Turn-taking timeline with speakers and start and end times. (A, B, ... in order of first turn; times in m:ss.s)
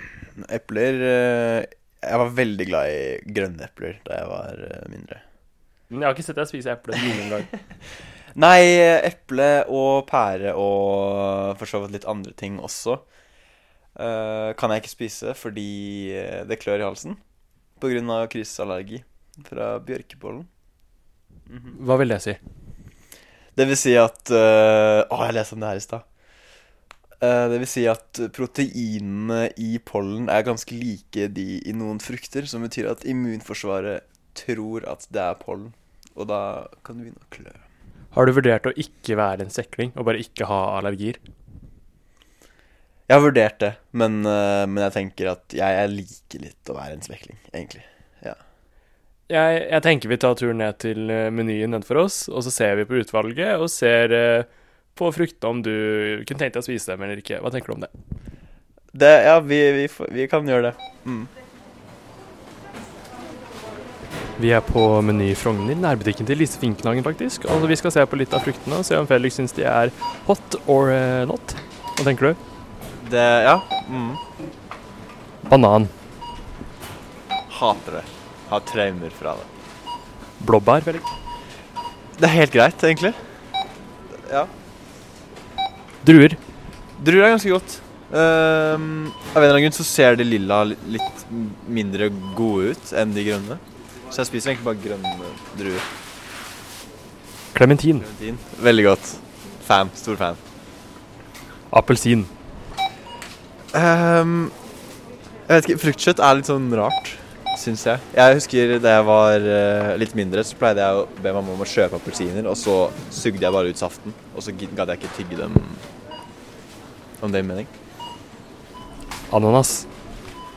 0:00.4-0:05.2 A
0:05.9-0:07.5 B
0:08.3-0:13.0 A
0:14.0-0:17.2 A
0:17.8-0:20.5 A
0:21.5-0:21.8 A
0:21.7-0:22.4 B
0:23.6-0:26.0 A
0:27.2-0:37.6 A
0:38.1-0:41.2 B
0:43.1-0:48.4 A
0:49.3-0:57.9 B
0:58.9-1:01.3 A
1:04.4-1:12.4 B
1:13.0-1:14.2 A
1:15.4-1:15.9 B
1:17.5-1:19.5 A
1:20.4-1:21.1 B
1:22.2-1:23.2 A
1:26.0-1:26.4 B
1:27.0-1:35.8 A
1:37.5-1:38.1 B
1:38.0-1:40.4 A
1:41.7-1:42.3 B
1:43.7-1:44.5 A
1:45.5-1:55.8 A
1:57.2-1:57.7 A
1:59.3-1:59.9 B